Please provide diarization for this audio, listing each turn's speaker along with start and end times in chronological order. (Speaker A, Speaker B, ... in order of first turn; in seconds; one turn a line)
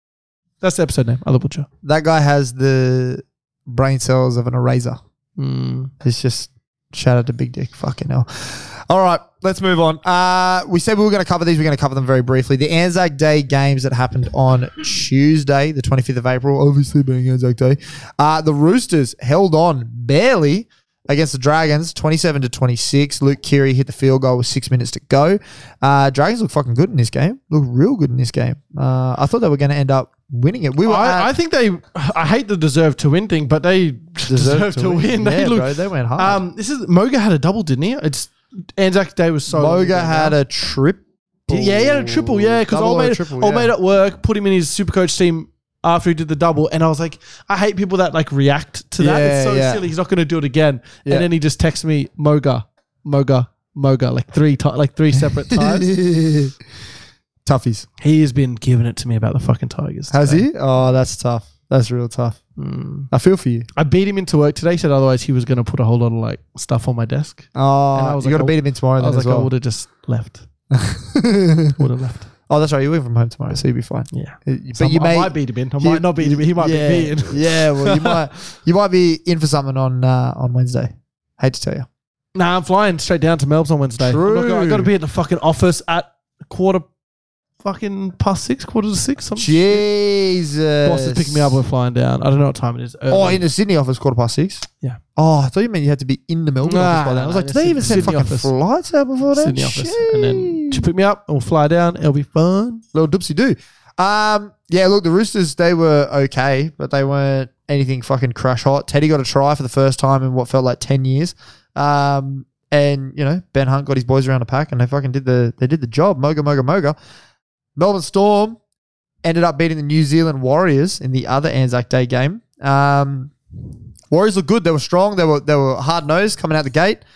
Speaker A: 0.6-1.7
Speaker B: 1.8-5.0
Speaker A: 5.4-5.9
Speaker B: 6.0-31.3
Speaker A: 30.8-40.4
Speaker B: 34.2-36.4
Speaker B: 39.5-43.7
Speaker A: 41.5-55.9
Speaker B: 49.0-49.8
Speaker B: 55.5-56.6
Speaker B: 57.4-57.9
Speaker A: 58.0-60.5
Speaker B: 60.1-62.4
Speaker A: 62.6-63.1
Speaker B: 63.1-63.6
Speaker A: 63.7-70.5
Speaker B: 67.5-69.5
Speaker B: 70.7-71.8
Speaker A: 71.8-72.3
Speaker B: 72.5-81.9
Speaker A: 74.1-78.2
Speaker A: 82.3-86.8
Speaker B: 84.0-84.9
Speaker A: 87.6-89.8
Speaker B: 89.4-91.6
Speaker A: 90.8-93.4
Speaker B: 93.1-100.8
Speaker A: 96.6-98.5
Speaker A: 99.3-102.8
Speaker B: 102.9-117.0
Speaker B: 117.8-118.6
Speaker B: 119.2-123.3
Speaker B: 124.1-127.0